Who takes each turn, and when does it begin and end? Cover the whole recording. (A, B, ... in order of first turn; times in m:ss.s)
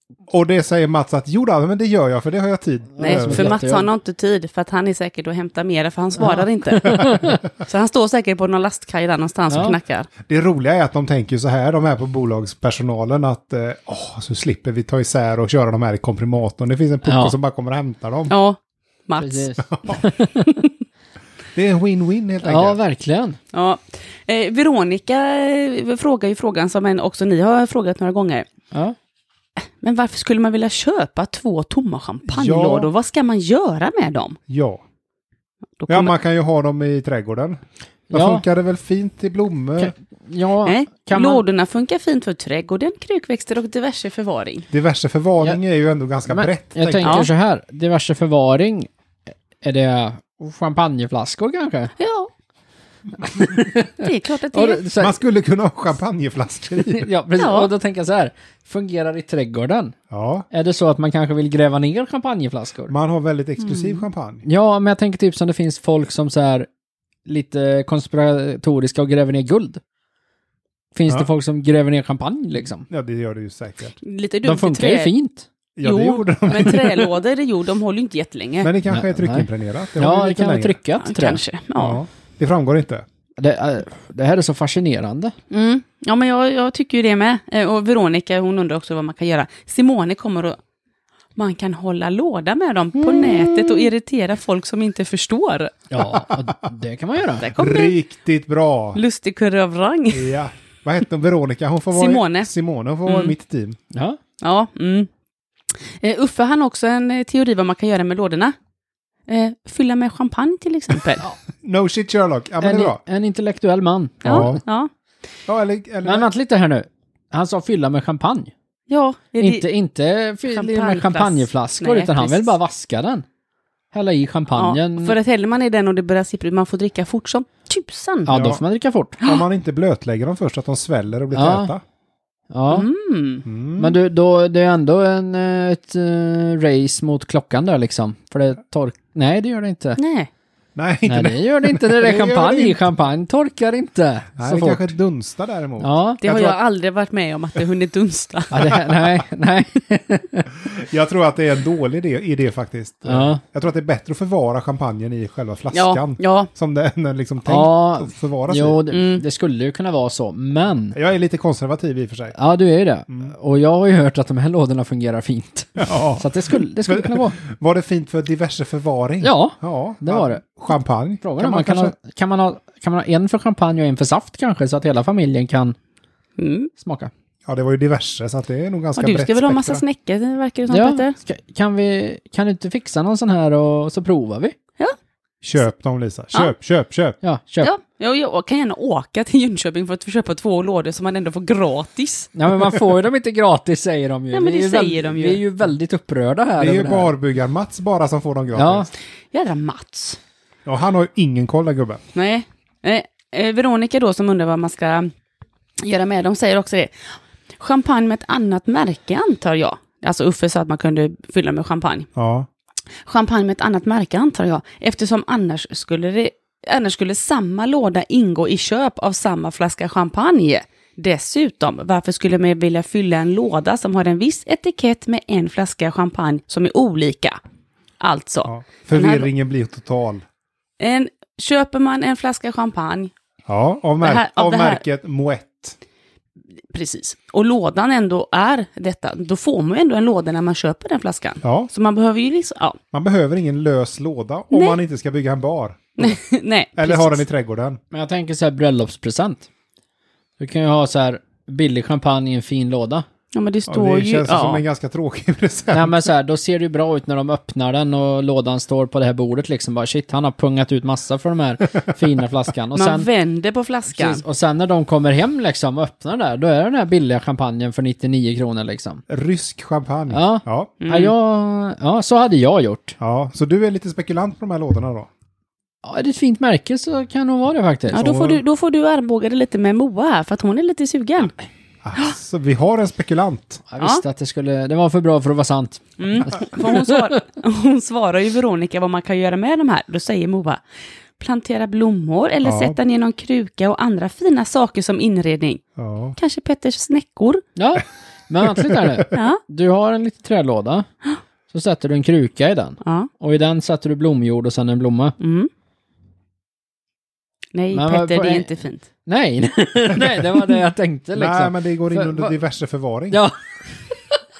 0:00.3-0:03.6 A
0:03.0-0:03.9 B
0:03.0-0:10.1 C
0:06.2-0:07.4 B
0:06.9-0:07.3 A
0:09.5-0:09.8 B
0:10.2-0:18.3 A
0:17.0-0:17.3 B
0:18.3-0:19.5 C
0:19.2-0:20.6 B
0:19.7-0:20.0 A
0:21.5-0:22.8 A
0:22.4-0:23.4 B
0:23.5-0:28.4 C
0:29.8-0:34.4 C
0:32.3-0:32.9 A
0:34.5-0:34.8 A
0:35.8-0:36.1 C
0:35.9-0:37.6 A
0:38.1-0:38.4 B
0:38.1-0:39.9 A
0:39.8-0:41.4 B
0:40.6-0:44.7 C
0:44.7-0:47.2 A
0:46.3-0:51.9 B
0:47.0-0:47.3 C
0:52.0-0:52.3 C
0:53.2-0:55.2 B
0:54.0-0:54.8 C
0:55.0-0:57.1 A
0:56.9-1:00.0 B
0:57.4-0:57.7 C
1:00.1-1:00.4 A
1:00.5-1:02.9 B
1:02.9-1:04.4 A
1:03.6-1:04.0 C
1:04.4-1:06.7 B
1:07.2-1:09.8 B
1:10.9-1:12.9 B
1:12.9-1:14.0 A
1:14.0-1:15.1 C
1:14.4-1:15.5 B
1:15.8-1:17.1 A
1:15.8-1:18.7 C
1:18.6-1:20.8 A
1:18.9-1:21.4 B
1:21.0-1:22.0 C
1:21.8-1:23.0 A
1:23.4-1:25.3 B
1:25.5-1:30.6 C
1:31.4-1:35.7 C
1:33.2-1:33.5 B
1:35.9-1:37.5 B
1:36.0-1:36.3 A
1:37.4-1:38.0 C
1:37.5-1:39.0 A
1:38.9-1:40.3 C
1:40.1-1:43.8 A
1:41.9-1:42.5 C
1:43.0-1:43.3 C
1:43.9-1:44.2 B
1:44.4-1:45.1 C
1:45.8-1:48.5 C
1:49.3-1:51.2 C
1:51.6-1:53.0 A
1:52.6-1:54.6 B
1:54.2-1:54.9 C
1:54.2-1:54.6 A
1:55.5-1:56.3 A
1:56.0-1:58.5 B
1:58.9-1:59.7 C
1:59.4-2:03.2 B
2:00.5-2:02.5 C
2:03.9-2:05.1 B
2:04.5-2:08.4 C
2:08.2-2:09.2 B
2:08.3-2:08.6 A
2:09.2-2:11.8 A
2:11.3-2:11.7 B
2:12.5-2:12.8 B
2:12.7-2:13.4 C
2:13.4-2:14.0 A
2:13.8-2:20.0 B
2:20.0-2:20.3 C
2:20.8-2:22.8 A
2:21.0-2:24.9 B
2:24.4-2:26.6 A
2:25.8-2:26.2 B
2:26.2-2:28.8 C
2:28.5-2:30.5 B
2:30.5-2:38.8 A
2:33.0-2:33.4 B
2:35.7-2:36.5 C
2:37.4-2:41.0 B
2:38.9-2:39.2 C
2:40.9-2:42.3 A
2:42.3-2:47.4 B
2:45.8-2:51.9 A
2:49.2-2:50.4 B
2:51.2-2:55.8 B
2:56.4-2:56.7 C
2:56.8-2:57.1 B
2:57.4-2:59.8 A
2:59.0-3:01.2 C
3:00.7-3:04.6 B
3:05.4-3:07.2 A
3:07.2-3:07.7 B
3:07.6-3:12.3 C
3:12.3-3:17.1 B
3:14.3-3:15.4 C
3:16.6-3:18.9 A
3:18.5-3:18.9 B
3:19.3-3:20.2 C
3:20.6-3:22.0 A
3:22.1-3:25.1 C
3:25.8-3:27.0 C
3:27.6-3:32.1 C
3:32.1-3:32.5 A
3:33.0-3:47.4 C
3:48.0-3:49.3 C
3:48.4-3:50.2 A
3:50.8-3:53.1 C
3:53.5-3:55.8 A
3:54.0-3:54.8 C
3:56.7-4:02.8 C
4:01.4-4:01.7 A
4:02.9-4:06.2 A
4:04.5-4:04.8 C
4:06.0-4:07.2 C
4:06.8-4:07.8 A
4:07.9-4:09.5 B
4:10.4-4:13.0 B
4:13.3-4:14.6 C
4:13.7-4:16.1 A
4:15.7-4:23.1 B
4:22.7-4:24.2 C
4:23.9-4:29.0 B
4:29.1-4:30.7 A
4:30.1-4:33.0 B
4:30.8-4:31.1 C
4:33.0-4:35.1 A
4:35.8-4:38.2 B
4:37.9-4:41.3 C
4:38.0-4:38.4 A
4:41.8-4:43.6 A
4:43.7-4:47.1 B
4:46.0-4:50.6 C
4:51.2-4:55.6 C
4:52.4-4:52.8 A
4:55.8-4:56.1 A
4:56.2-4:57.4 C
4:57.6-5:00.9 B
4:58.4-4:59.0 A
4:59.1-4:59.4 C
5:01.5-5:05.2 B
5:02.8-5:03.1 C
5:05.2-5:05.5 C
5:07.5-5:08.9 C
5:07.7-5:08.5 B
5:09.0-5:12.4 B
5:11.1-5:13.2 A
5:13.1-5:13.4 B
5:13.9-5:14.2 B